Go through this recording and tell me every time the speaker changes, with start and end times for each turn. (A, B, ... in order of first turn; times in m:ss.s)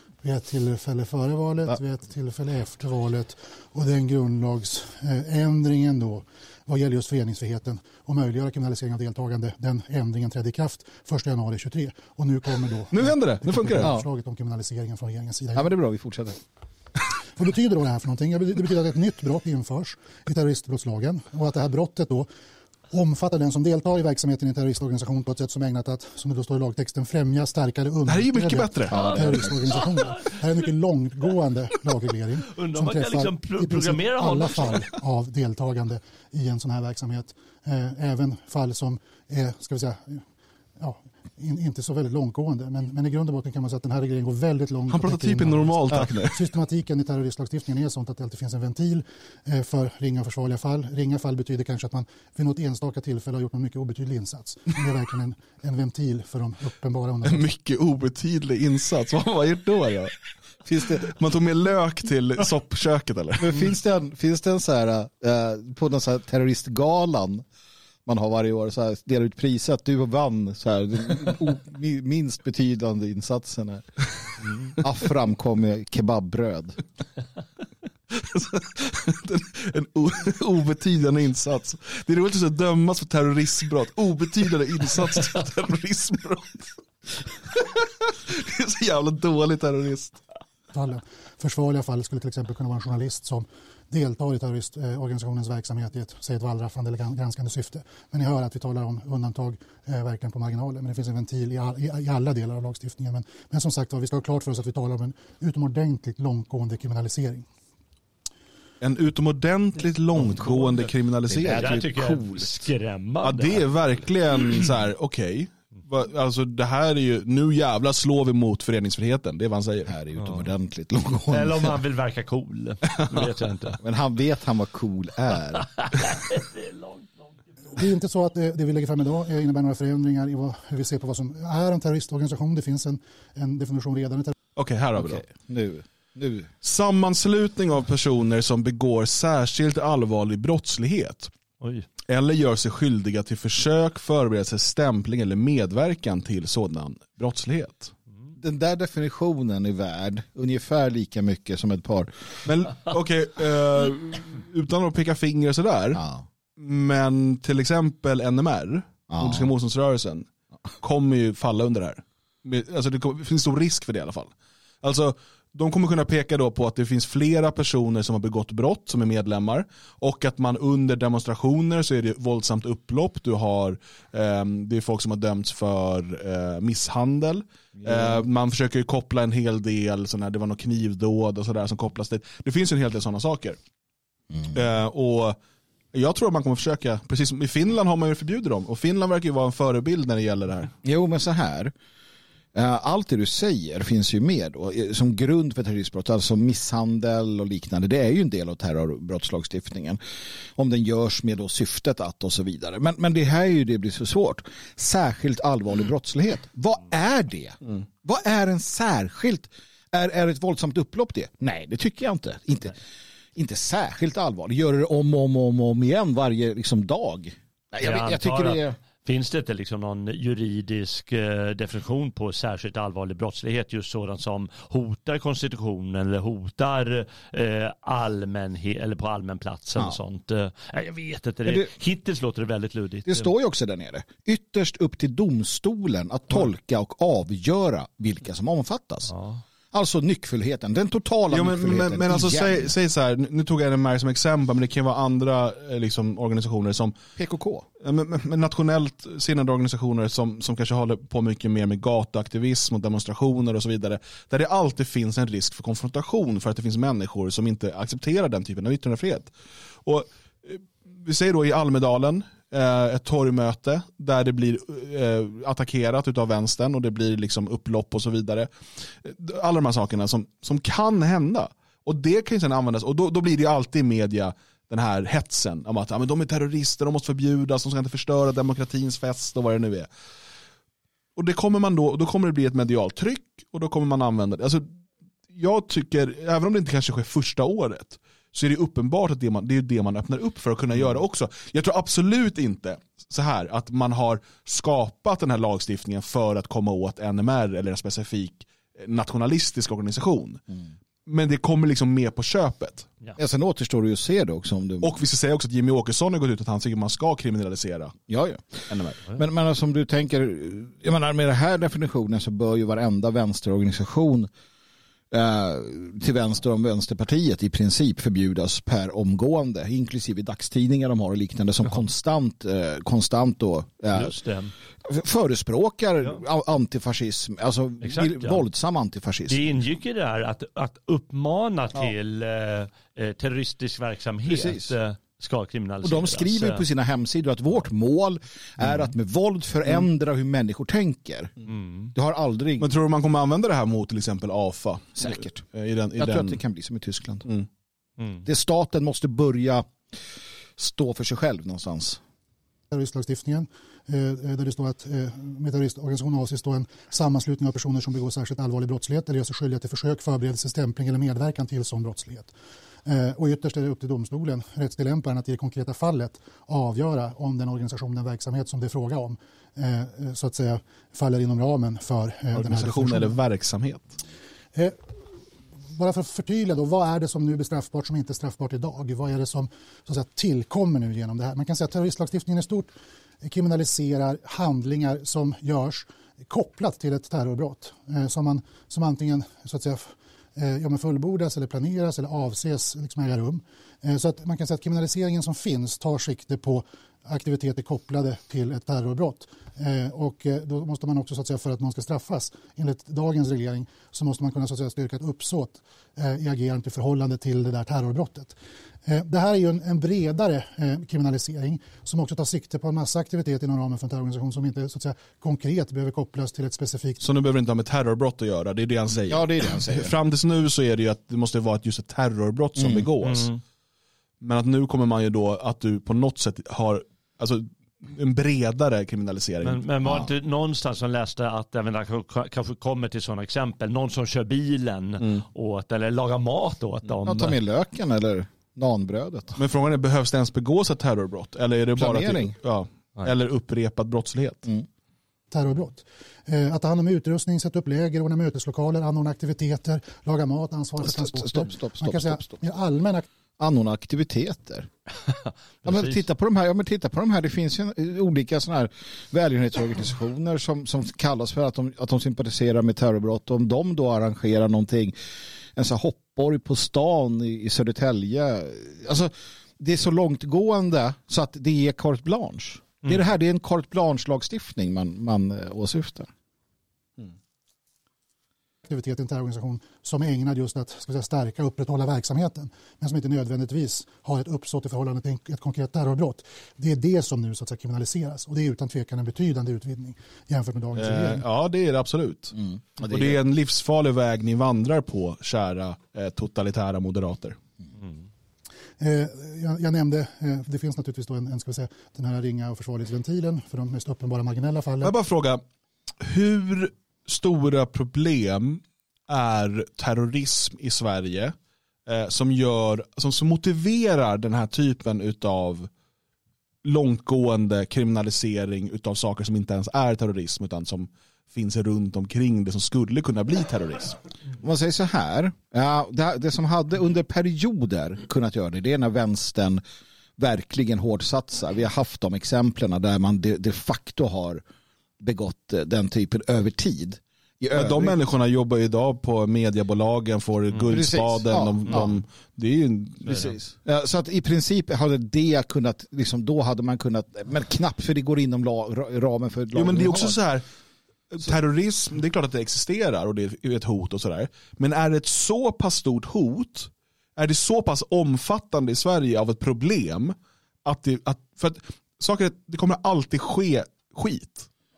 0:00.2-0:15.7 A
0:12.9-0:13.9 B
0:13.8-0:14.1 C
0:15.6-0:16.4 C
0:17.4-0:22.3 A
0:22.9-0:40.2 A
0:28.1-0:29.1 B
0:28.9-0:29.8 C
0:32.5-0:34.8 D
0:40.8-0:57.4 A
0:44.9-0:46.4 B
0:57.2-1:00.2 B
1:00.6-1:01.1 C
1:01.1-1:03.7 B
1:03.4-1:07.4 C
1:08.1-1:13.9 C
1:14.8-1:16.8 C
1:18.1-1:30.2 B
1:30.7-1:47.5 A
1:48.8-1:51.8 B
1:50.2-1:52.7 C
1:51.4-1:53.7 D
1:53.2-2:00.0 B
1:59.9-2:01.8 C
2:01.3-2:03.8 D
2:03.8-2:05.7 C
2:05.8-2:07.4 D
2:07.8-2:14.3 A
2:14.6-2:15.2 B
2:15.0-2:16.5 C
2:16.6-2:21.3 B
2:21.6-2:21.9 D
2:22.1-2:27.9 B
2:28.4-2:32.4 C
2:32.4-2:36.0 B
2:35.9-2:36.3 C
2:36.6-2:40.3 B
2:39.1-2:39.5 C
2:40.8-3:03.6 B
2:57.8-2:58.2 C
3:04.5-3:05.4 B
3:05.9-3:10.7 B
3:10.8-3:11.7 C
3:12.5-3:20.0 C
3:20.6-3:32.8 C
3:33.4-3:38.8 C
3:37.8-3:53.3 D
3:51.5-3:51.7 C
3:53.1-3:59.1 C
3:59.1-3:59.4 D
3:59.7-4:02.7 C
4:01.3-4:07.0 B
4:07.2-4:07.7 C
4:07.8-4:19.3 B
4:19.8-4:28.5 B
4:29.0-4:39.9 B
4:41.2-4:44.6 B
4:45.3-5:00.4 B
5:01.1-5:02.9 B
5:03.2-5:05.0 C
5:04.8-5:08.0 B
5:08.1-5:14.3 C
5:08.7-5:09.0 B
5:15.1-5:24.2 C
5:23.9-5:24.5 D
5:24.8-5:29.5 C
5:27.8-5:28.4 D
5:29.3-5:36.6 D
5:34.3-5:34.8 C
5:35.8-5:41.3 C
5:41.5-5:41.9 D
5:41.9-5:42.7 C
5:42.6-5:46.4 B
5:45.0-5:45.4 C
5:46.0-5:47.3 C
5:48.2-5:49.8 C
5:50.6-5:52.0 C
5:52.7-6:02.3 A
6:02.8-6:13.1 A
6:12.3-6:14.0 B
6:14.5-6:14.8 A
6:15.8-6:22.7 A
6:23.2-6:57.0 A
6:57.0-7:03.3 B
6:59.1-6:59.9 C
7:02.6-7:02.9 C
7:03.0-7:03.4 D
7:04.2-7:09.6 B
7:09.4-7:17.4 D
7:09.8-7:10.1 C
7:17.0-7:19.4 C
7:19.4-7:24.5 B
7:21.8-7:22.4 C
7:25.3-7:33.1 A
7:30.8-7:32.4 C
7:33.4-7:34.7 C
7:35.6-7:45.0 C
7:45.6-7:56.1 C
7:58.7-8:11.2 A
8:10.8-8:17.4 B
8:12.4-8:13.2 C
8:18.8-8:24.9 A
8:24.8-8:25.4 B
8:26.0-8:31.4 B
8:31.9-8:35.7 B
8:36.6-8:44.0 B
8:44.4-8:49.6 C
8:50.2-8:54.4 C
8:55.0-8:58.0 C
8:57.6-9:03.4 B
9:00.7-9:01.9 C
9:03.1-9:03.3 D
9:03.1-9:10.2 C
9:09.6-9:10.4 B
9:11.1-9:24.5 B